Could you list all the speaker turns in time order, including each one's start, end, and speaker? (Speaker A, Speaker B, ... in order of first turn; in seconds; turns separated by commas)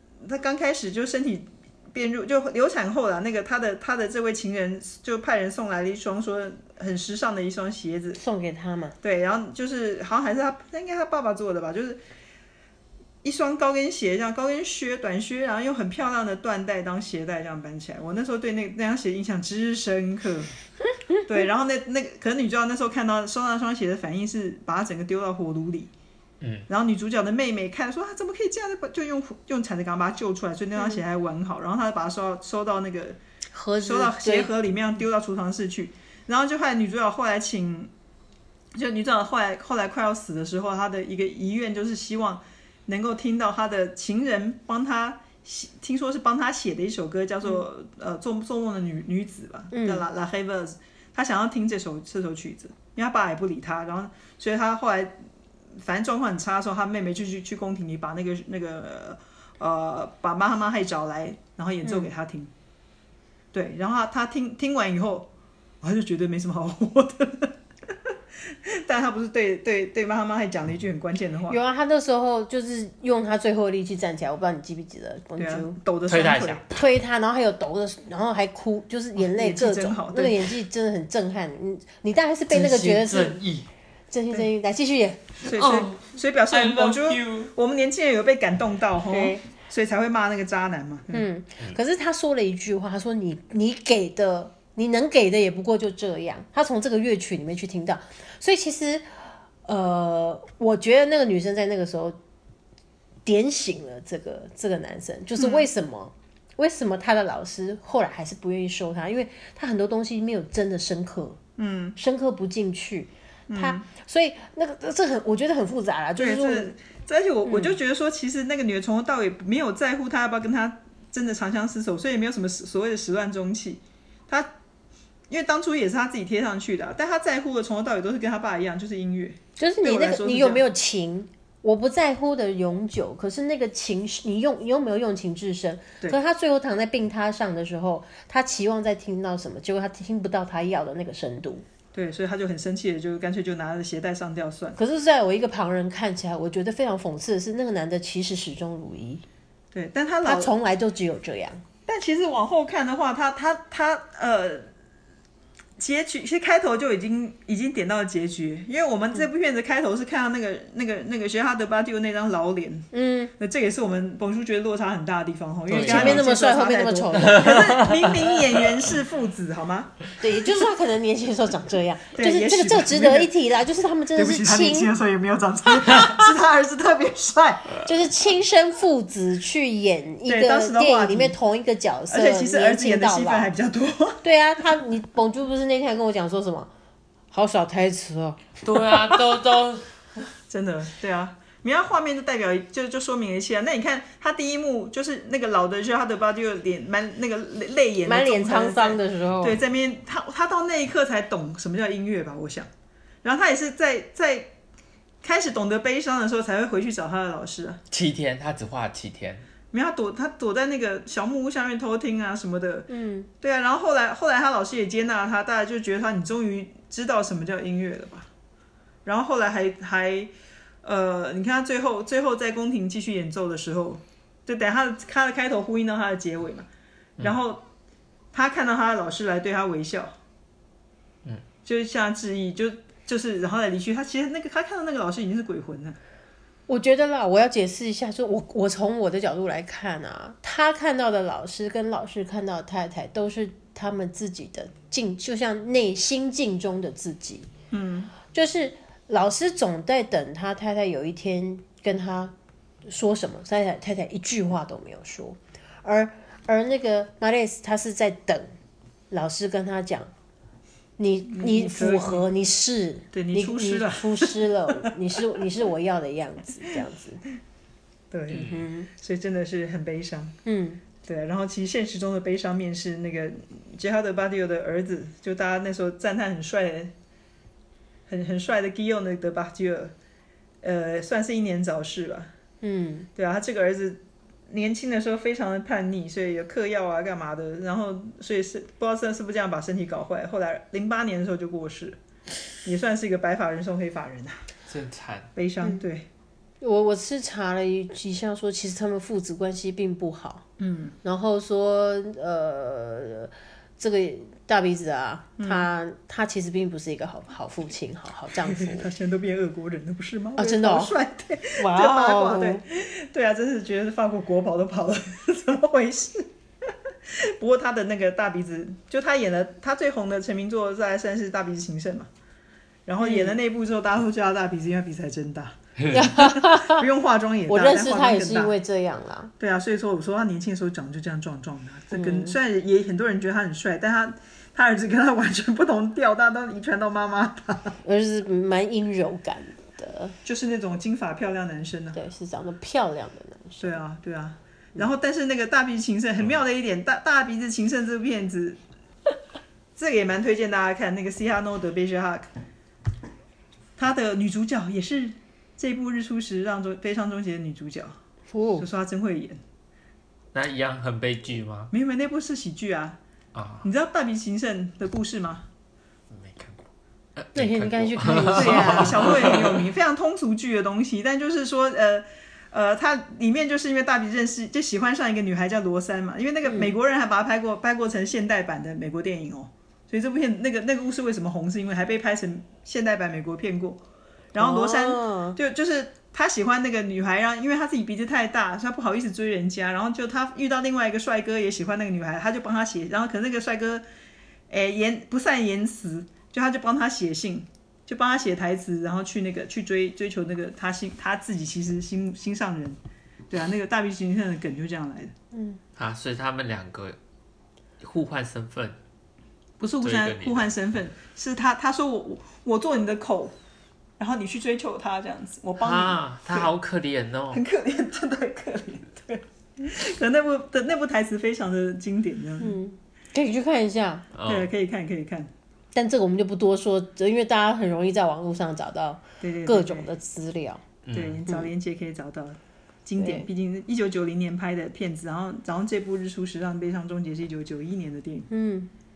Speaker A: 0.2-8.2, Speaker B: 8.2-8.9, Speaker A: 9.0-12.0, Speaker A: 13.2-20.5, Speaker A: 21.2-25.9, Speaker C: 26.4-26.7, Speaker A: 26.7-33.2, Speaker B: 33.5-34.5, Speaker A: 33.8-37.9, Speaker A: 38.7-55.2, Speaker B: 49.7-50.0, Speaker A: 55.8-62.5, Speaker A: 63.5-65.3, Speaker A: 65.8-71.6, Speaker B: 71.5-75.7, Speaker A: 75.4-76.6, Speaker C: 76.1-76.8, Speaker B: 76.7-83.4, Speaker A: 79.2-80.5, Speaker C: 82.5-83.7, Speaker B: 84.1-85.3, Speaker A: 85.4-91.2, Speaker C: 85.4-87.5, Speaker B: 89.1-89.4, Speaker B: 91.1-99.0, Speaker B: 99.7-102.2, Speaker B: 103.2-111.4, Speaker A: 105.4-105.7, Speaker A: 111.6-112.0, Speaker B: 112.0-116.7, Speaker A: 113.5-113.8, Speaker A: 116.2-124.5, Speaker B: 117.4-117.7, Speaker A: 125.3-130.6, Speaker B: 129.6-141.6, Speaker A: 141.9-144.8, Speaker B: 144.8-149.2, Speaker A: 149.7-150.5, Speaker B: 150.2-151.6, Speaker A: 151.8-154.7, Speaker A: 155.8-170.0, Speaker B: 162.9-163.3, Speaker C: 165.7-166.3, Speaker B: 165.8-167.6, Speaker C: 167.1-168.8, Speaker B: 170.2-174.9, Speaker A: 172.1-173.3, Speaker A: 174.1-177.8, Speaker B: 175.7-176.1, Speaker B: 177.8-183.5, Speaker A: 180.2-181.3, Speaker A: 182.1-184.2, Speaker B: 184.2-186.7, Speaker B: 187.3-188.4, Speaker C: 188.6-189.8, Speaker A: 190.5-202.7, Speaker B: 198.1-199.6, Speaker A: 203.2-204.5, Speaker A: 205.2-207.8, Speaker C: 207.9-209.4, Speaker A: 209.7-212.9, Speaker B: 212.9-213.3, Speaker A: 213.4-218.3, Speaker A: 219.0-226.7, Speaker A: 227.2-227.6, Speaker A: 228.3-230.1, Speaker A: 231.6-236.0, Speaker B: 236.7-247.5, Speaker A: 247.7-248.1, Speaker B: 248.3-252.3, Speaker B: 252.8-258.5, Speaker B: 259.1-260.1, Speaker B: 261.0-267.2, Speaker A: 261.3-262.2, Speaker A: 263.1-265.4, Speaker A: 268.1-270.4, Speaker B: 268.3-268.9, Speaker C: 268.3-268.6, Speaker B: 270.4-270.8, Speaker A: 271.0-276.9, Speaker A: 278.1-279.9, Speaker A: 280.6-282.3, Speaker B: 282.6-283.1, Speaker A: 283.1-292.0, Speaker A: 292.6-294.4, Speaker C: 294.7-295.3, Speaker A: 295.3-296.1, Speaker B: 296.6-300.4, Speaker A: 300.6-300.9, Speaker B: 301.0-308.9, Speaker A: 305.4-305.7, Speaker A: 308.4-322.1, Speaker B: 310.4-310.9, Speaker B: 311.6-312.6, Speaker A: 322.9-328.5, Speaker B: 323.0-323.3, Speaker B: 325.9-326.9, Speaker B: 327.5-329.3, Speaker A: 329.4-337.8, Speaker B: 331.9-332.4, Speaker B: 337.8-340.1, Speaker A: 340.2-342.0, Speaker B: 341.9-343.8, Speaker A: 343.6-348.6, Speaker A: 349.8-352.3, Speaker A: 353.8-357.9, Speaker B: 358.3-358.6, Speaker A: 358.6-359.4, Speaker C: 360.3-361.7, Speaker A: 361.7-363.0, Speaker C: 363.3-363.6, Speaker A: 363.6-365.4, Speaker C: 366.1-366.6, Speaker C: 367.2-369.6, Speaker B: 367.3-369.1, Speaker A: 368.3-383.8, Speaker B: 376.4-376.7, Speaker A: 384.3-393.8, Speaker B: 384.4-385.4, Speaker A: 394.5-402.8, Speaker A: 403.3-405.1, Speaker B: 405.3-405.6, Speaker C: 405.8-407.0, Speaker C: 407.8-408.8, Speaker A: 409.6-413.3, Speaker C: 409.8-410.4, Speaker A: 414.0-416.5, Speaker C: 415.6-417.4, Speaker A: 417.3-422.6, Speaker B: 422.4-424.1, Speaker C: 424.1-424.5, Speaker A: 424.2-425.3, Speaker B: 425.7-430.6, Speaker A: 429.2-429.9, Speaker C: 430.8-431.2, Speaker A: 430.9-438.3, Speaker B: 433.0-433.3, Speaker B: 438.3-438.7